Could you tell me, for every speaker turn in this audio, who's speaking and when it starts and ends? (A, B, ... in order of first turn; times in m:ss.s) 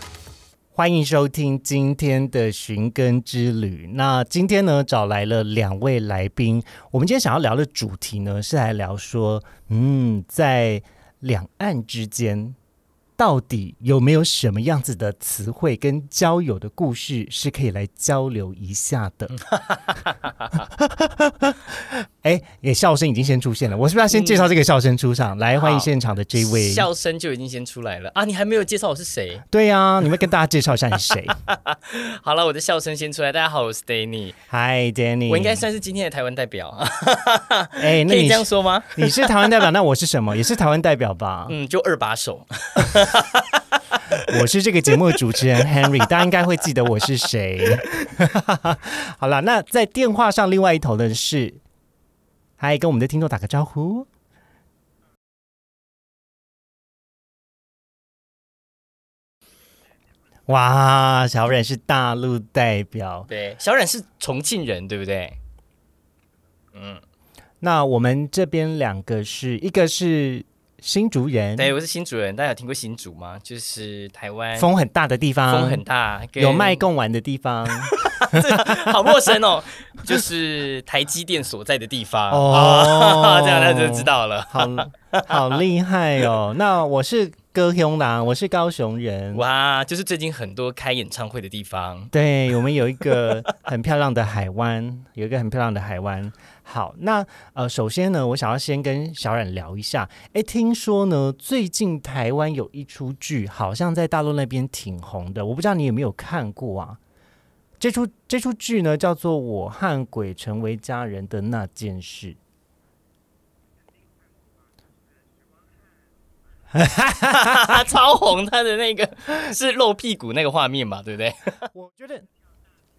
0:00.7-0:12.6 A
0:13.2-0:19.3 A
0:19.3-0:20.6 B
0:20.8-0:26.9 A
0:24.1-0:24.5 B
0:25.6-0:29.4 B
0:29.5-0:31.4 A
0:31.5-0:34.4 B
0:34.5-0:35.6 A
0:35.3-0:39.4 B
0:37.8-0:41.5 A
0:41.5-0:44.4 B
0:44.2-0:51.6 A
0:52.6-0:54.1 A
1:00.5-1:03.3 A
1:03.3-1:05.4 B
1:06.7-1:07.0 B
1:07.6-1:11.7 A
1:11.6-1:14.7 B
1:14.6-1:15.8 A
1:15.5-1:16.8 B
1:16.4-1:19.3 A
1:17.8-1:25.4 B
1:22.3-1:29.4 A
1:29.3-1:32.1 B
1:32.1-1:47.0 A
1:33.1-1:33.4 B
1:47.8-1:52.4 A
1:56.7-1:57.8 A
1:57.3-2:01.7 B
2:01.7-2:02.3 A